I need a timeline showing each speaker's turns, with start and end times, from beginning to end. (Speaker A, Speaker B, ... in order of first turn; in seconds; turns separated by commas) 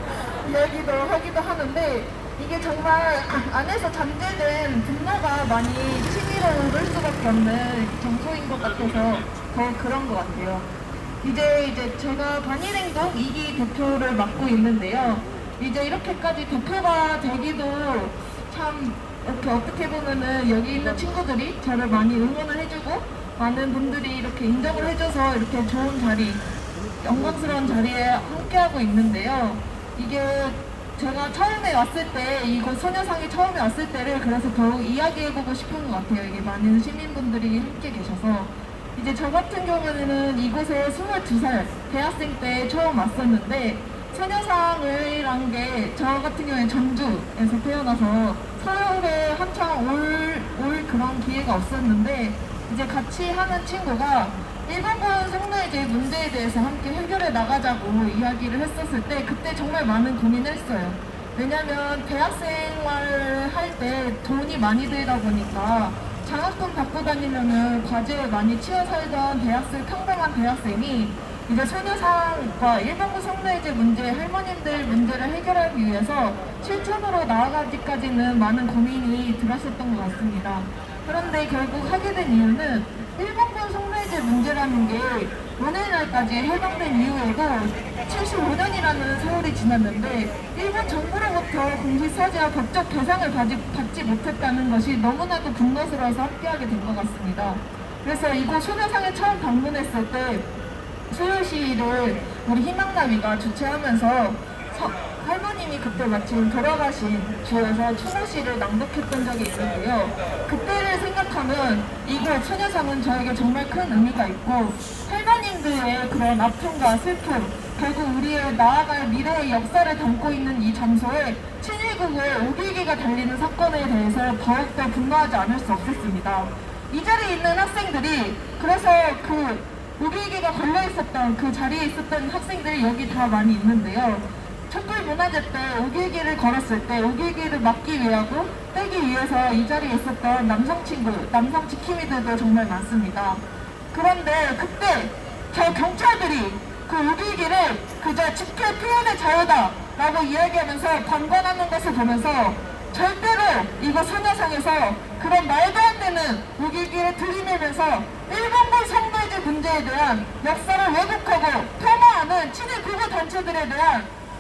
Speaker A: 0.4-10.7, Speaker A: 11.2-26.4, Speaker A: 27.0-100.5, Speaker A: 101.1-164.1